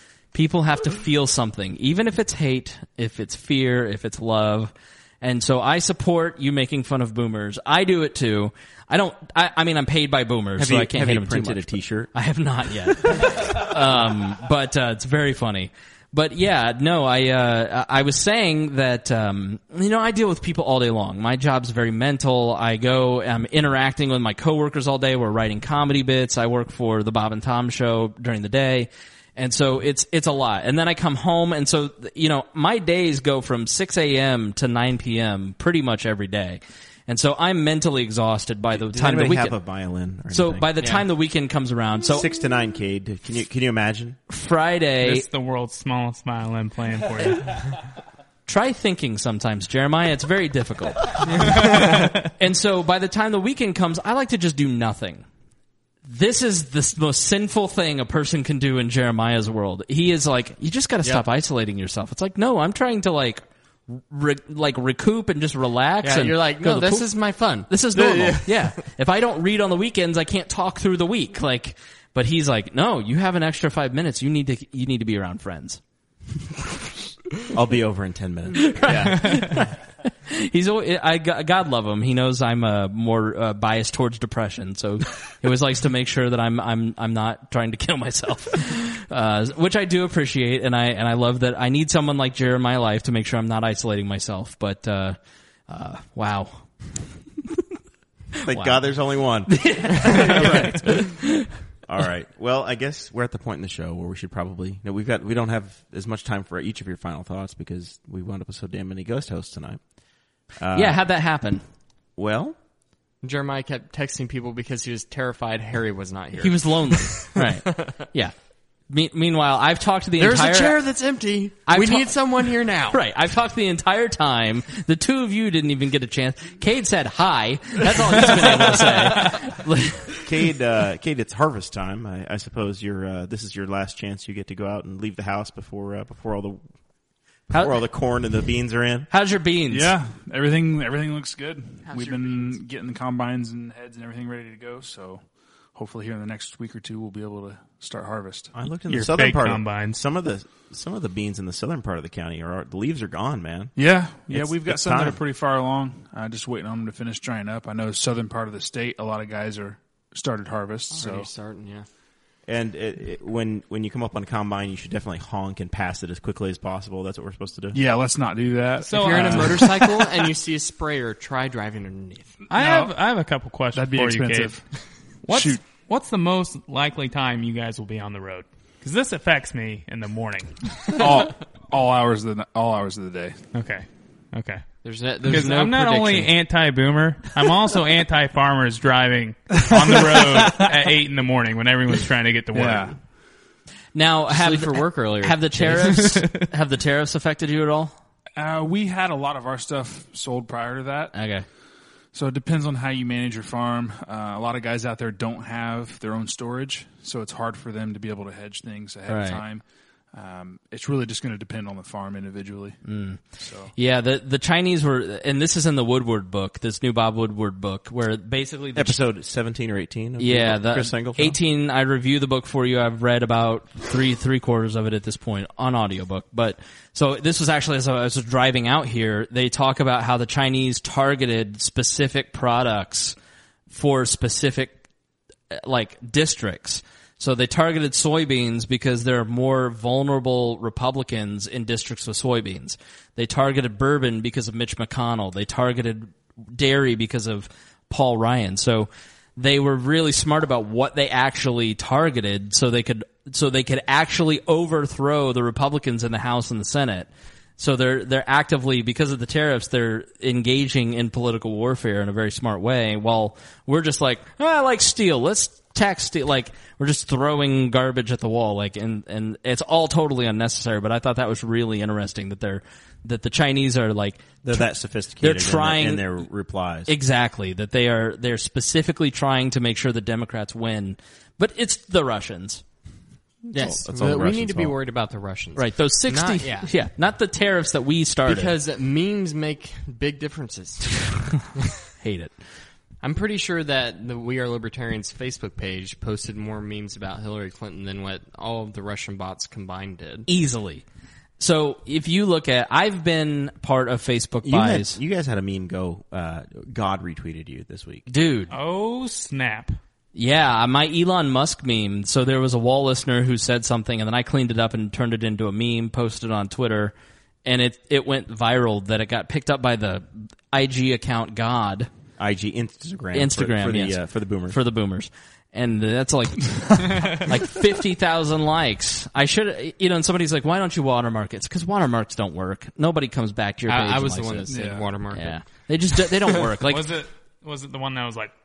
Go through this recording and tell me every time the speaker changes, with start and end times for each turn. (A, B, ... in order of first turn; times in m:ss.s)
0:00.3-0:39.6 A
0:10.6-0:12.1 B
0:38.7-0:40.7 B
0:40.3-0:42.3 A
0:42.0-0:44.2 B
0:44.3-0:45.2 A
0:45.0-0:47.6 C
0:48.5-0:55.2 A
0:56.0-1:07.1 A
1:06.0-1:08.8 D
1:07.7-1:15.8 A
1:17.5-1:19.0 B
1:18.6-1:19.7 A
1:18.8-1:19.7 D
1:20.3-1:35.2 A
1:35.7-1:36.7 A
1:38.4-1:38.8 A
1:38.4-1:41.1 B
1:39.5-1:41.5 A
1:41.8-1:49.8 B
1:50.6-1:51.0 B
1:50.7-1:51.6 A
1:52.2-1:52.6 B
1:53.2-1:57.9 D
1:56.4-1:58.3 A
1:58.9-2:00.8 A
2:00.2-2:03.0 D
2:01.7-2:02.1 A
2:02.9-2:10.2 A
2:10.2-2:16.6 B
2:17.5-2:19.1 B
2:19.1-2:19.9 A
2:19.7-2:28.5 E
2:21.9-2:22.5 D
2:28.5-2:33.7 B
2:28.9-2:30.0 C
2:33.8-2:41.3 E
2:34.3-2:35.2 B
2:40.9-2:41.9 D
2:42.5-2:47.8 B
2:47.7-2:50.1 E
2:48.8-2:49.7 C
2:48.9-2:52.4 D
2:52.5-2:52.9 E
2:52.5-2:54.6 C
2:53.7-2:54.7 E
2:55.3-3:01.0 C
2:55.3-2:55.6 E
3:00.8-3:03.4 E
3:03.5-3:04.6 C
3:04.8-3:06.3 D
3:05.2-3:12.9 C
3:09.5-3:10.7 E
3:12.5-3:13.0 E
3:13.9-3:17.9 A
3:14.3-3:16.1 D
3:16.0-3:16.3 C
3:18.4-3:21.1 E
3:21.1-3:21.4 A
3:22.1-3:33.7 E
3:29.1-3:29.4 A
3:32.8-3:33.2 A
3:33.7-3:39.0 A
3:38.8-3:41.4 B
3:40.2-3:53.2 A
3:53.7-3:54.8 A
3:55.5-4:34.6 A
4:34.4-4:36.9 B
4:35.2-4:36.0 A
4:36.9-4:42.6 A
4:43.5-4:44.8 B
4:43.5-4:46.7 D
4:45.6-4:48.5 A
4:48.2-4:51.1 D
4:52.0-4:52.3 A
4:53.0-5:00.3 D
5:00.3-5:00.8 A
5:01.4-5:05.0 A
5:04.4-5:08.1 B
5:08.1-5:08.5 A
5:08.5-5:09.8 C
5:10.1-5:21.9 A
5:22.2-5:24.6 B
5:23.1-5:34.6 A
5:26.9-5:27.3 C
5:33.7-5:35.4 D
5:34.5-5:34.9 E
5:35.1-5:36.9 A
5:36.6-5:38.3 C